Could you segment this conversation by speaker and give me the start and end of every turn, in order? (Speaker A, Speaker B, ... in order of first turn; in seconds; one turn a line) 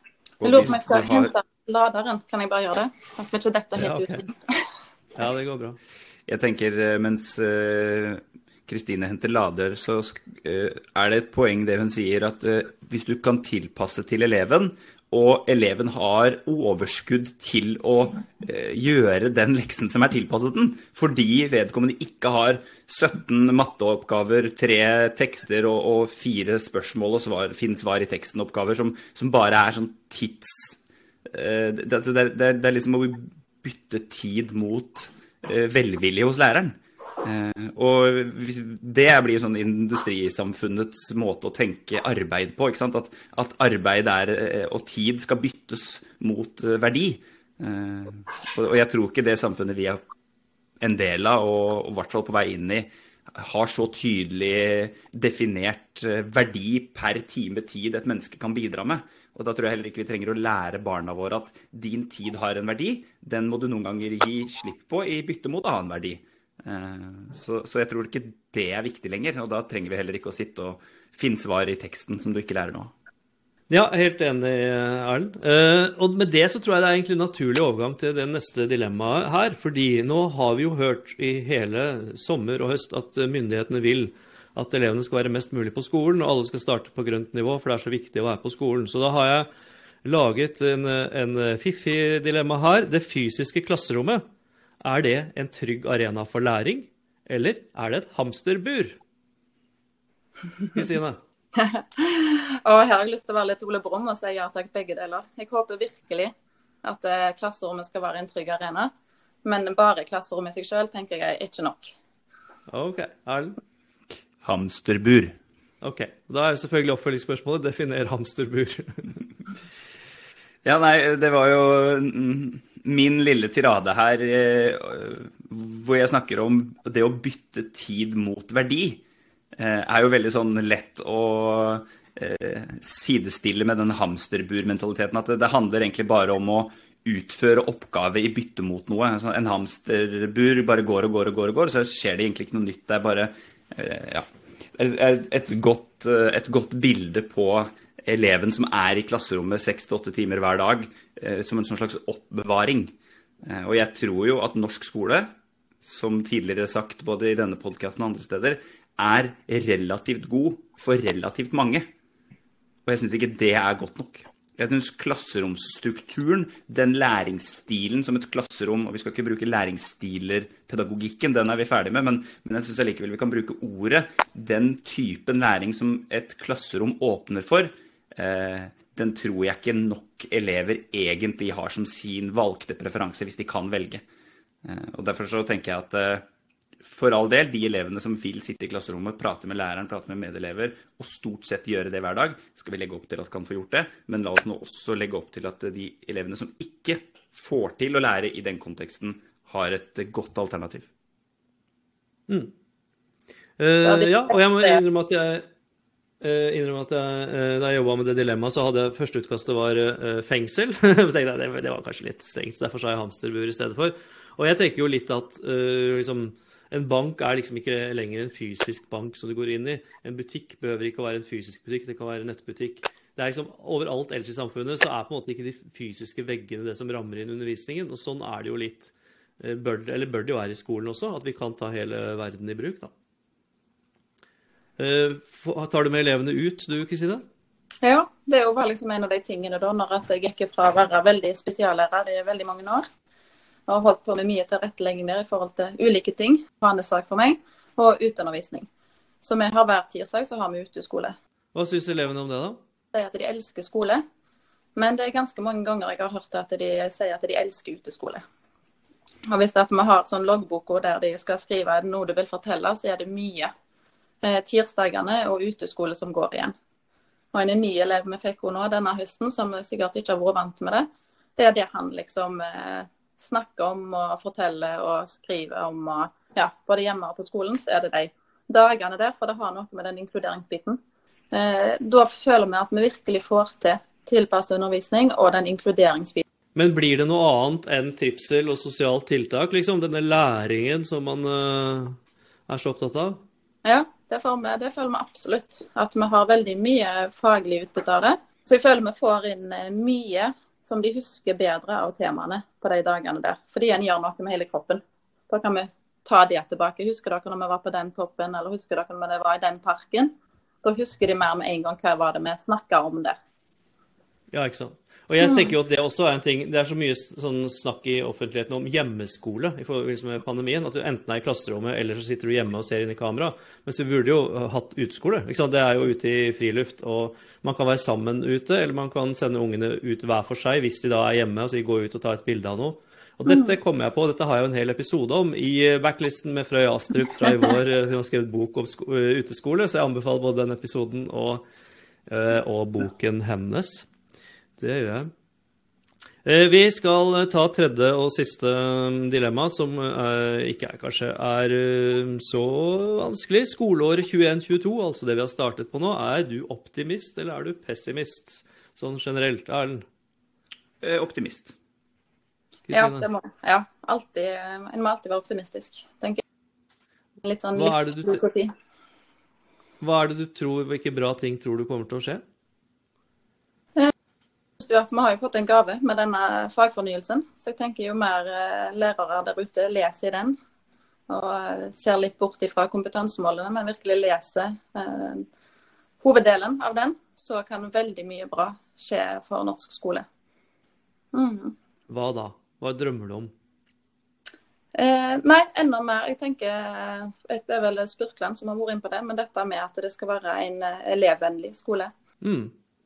Speaker A: 0.4-1.3
Speaker B: 0.4-4.7
Speaker C: 3.8-4.3
Speaker C: 5.2-5.8
Speaker A: 6.3-50.0
Speaker A: 50.8-72.9
Speaker C: 73.7-89.5
Speaker C: 90.0-94.2
Speaker C: 94.8-99.0
Speaker C: 100.7-101.2
Speaker B: 101.5-106.3
Speaker B: 106.8-108.9
Speaker B: 109.4-111.9
Speaker C: 112.7-113.6
Speaker A: 114.4-115.3
Speaker C: 115.8-119.2
Speaker A: 120.6-129.0
Speaker A: 129.6-161.9
Speaker A: 162.9-184.0
Speaker A: 184.6-186.2
Speaker A: 186.8-200.9
Speaker C: 202.3-202.5
Speaker C: 203.6-205.5
Speaker B: 203.8-204.8
Speaker C: 206.2-232.9
Speaker C: 234.8-237.2
Speaker B: 237.8-242.9
Speaker B: 243.7-248.7
Speaker B: 249.2-251.2
Speaker C: 251.6-252.6
Speaker B: 252.9-254.0
Speaker B: 254.8-258.2
Speaker B: 259.3-263.5
Speaker B: 264.2-266.5
Speaker B: 267.3-280.8
Speaker B: 281.3-286.2
Speaker C: 286.6-293.2
Speaker B: 293.6-313.2
Speaker C: 314.3-341.4
Speaker B: 315.2-315.5
Speaker B: 333.3-333.6
Speaker C: 342.1-343.9
Speaker C: 344.6-345.1
Speaker C: 346.2-359.9
Speaker A: 360.8-361.6
Speaker C: 362.7-363.1
Speaker B: 362.7-366.2
Speaker B: 367.2-368.5
Speaker C: 367.6-368.2
Speaker C: 369.8-372.2
Speaker B: 374.6-380.4
Speaker B: 381.1-385.3
Speaker B: 386.0-390.1
Speaker B: 391.1-391.6
Speaker C: 391.9-393.3
Speaker B: 394.8-401.9
Speaker C: 402.2-402.5